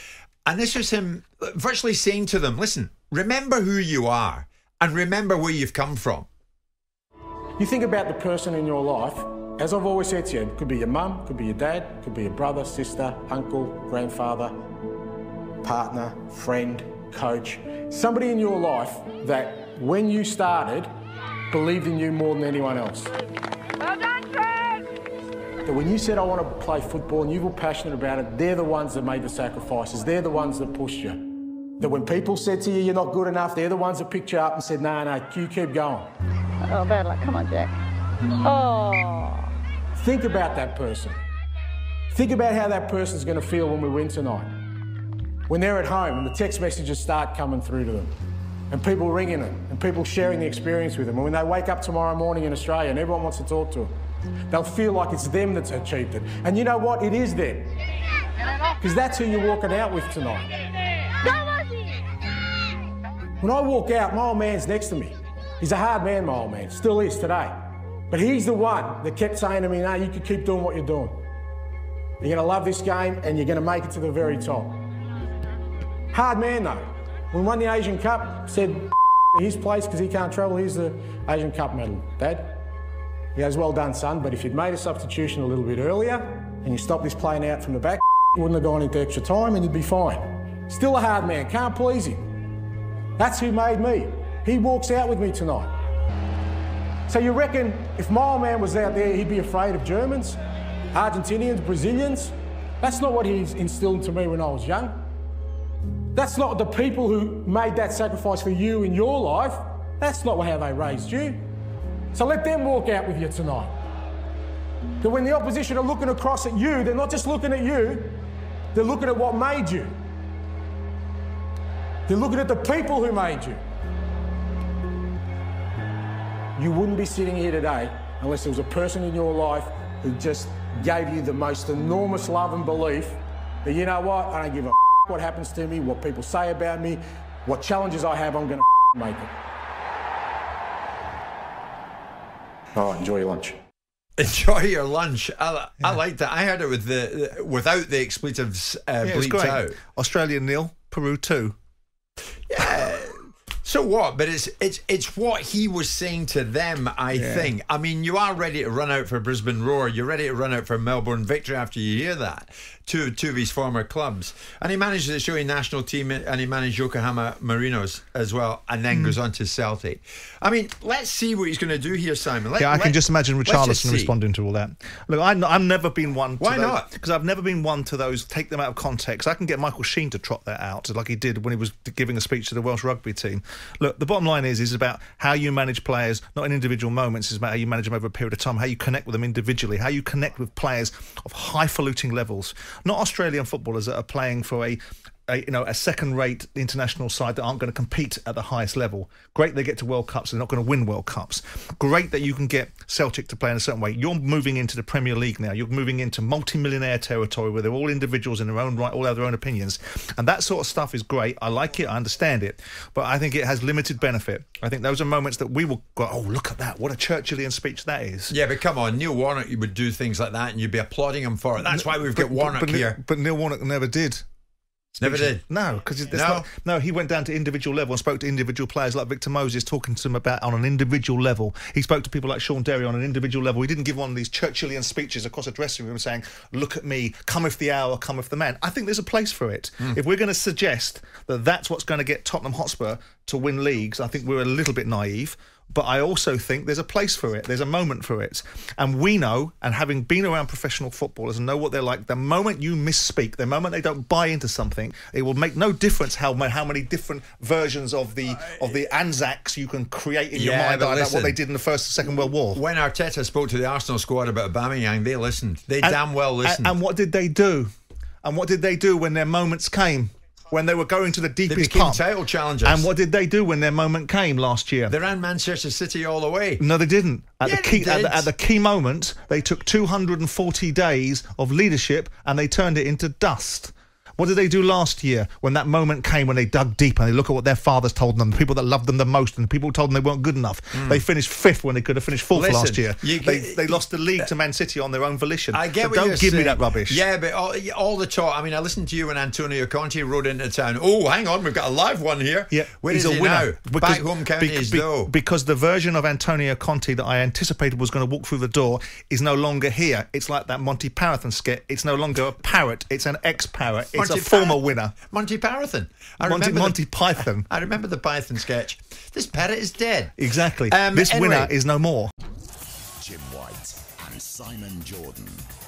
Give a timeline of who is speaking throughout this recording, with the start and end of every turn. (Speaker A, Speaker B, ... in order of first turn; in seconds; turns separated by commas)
Speaker A: 0.4-6.3, Speaker B: 7.6-14.5, Speaker B: 15.6-20.9, Speaker B: 21.5-23.1, Speaker B: 25.6-31.2, Speaker B: 31.8-36.1, Speaker C: 36.6-37.7, Speaker C: 38.4-39.5, Speaker B: 40.0-41.2, Speaker B: 42.1-44.5, Speaker B: 45.5-48.1, Speaker B: 48.7-53.9, Speaker B: 54.5-57.7, Speaker B: 58.8-60.5, Speaker C: 61.2-62.0, Speaker B: 63.4-71.2, Speaker B: 72.2-74.8, Speaker B: 76.1-82.6, Speaker B: 83.3-92.2, Speaker B: 93.2-95.7, Speaker B: 97.1-100.4, Speaker B: 100.9-105.0, Speaker B: 106.1-111.4, Speaker B: 112.1-113.8, Speaker B: 115.0-118.2, Speaker B: 118.7-119.9, Speaker B: 122.1-123.6, Speaker B: 126.5-139.3, Speaker B: 142.7-143.6, Speaker A: 144.2-149.8, Speaker D: 149.0-151.6, Speaker A: 152.5-174.1, Speaker D: 157.1-157.5, Speaker D: 172.6-218.3, Speaker A: 176.4-176.9, Speaker A: 218.3-223.0, Speaker D: 221.6-224.2, Speaker D: 225.0-262.6, Speaker A: 225.0-225.4, Speaker A: 226.1-226.4, Speaker A: 260.3-261.4, Speaker A: 262.5-266.8, Speaker D: 265.8-267.7, Speaker D: 268.2-272.0, Speaker A: 271.5-272.9, Speaker D: 272.6-274.9, Speaker A: 274.9-276.6, Speaker D: 276.6-297.0, Speaker A: 277.4-278.3, Speaker A: 290.7-291.0, Speaker A: 292.3-293.8, Speaker A: 295.5-305.1, Speaker D: 302.5-314.9, Speaker A: 313.9-316.9, Speaker D: 316.2-317.5, Speaker A: 317.4-320.2, Speaker D: 320.2-322.1, Speaker A: 320.7-321.5, Speaker E: 323.0-325.4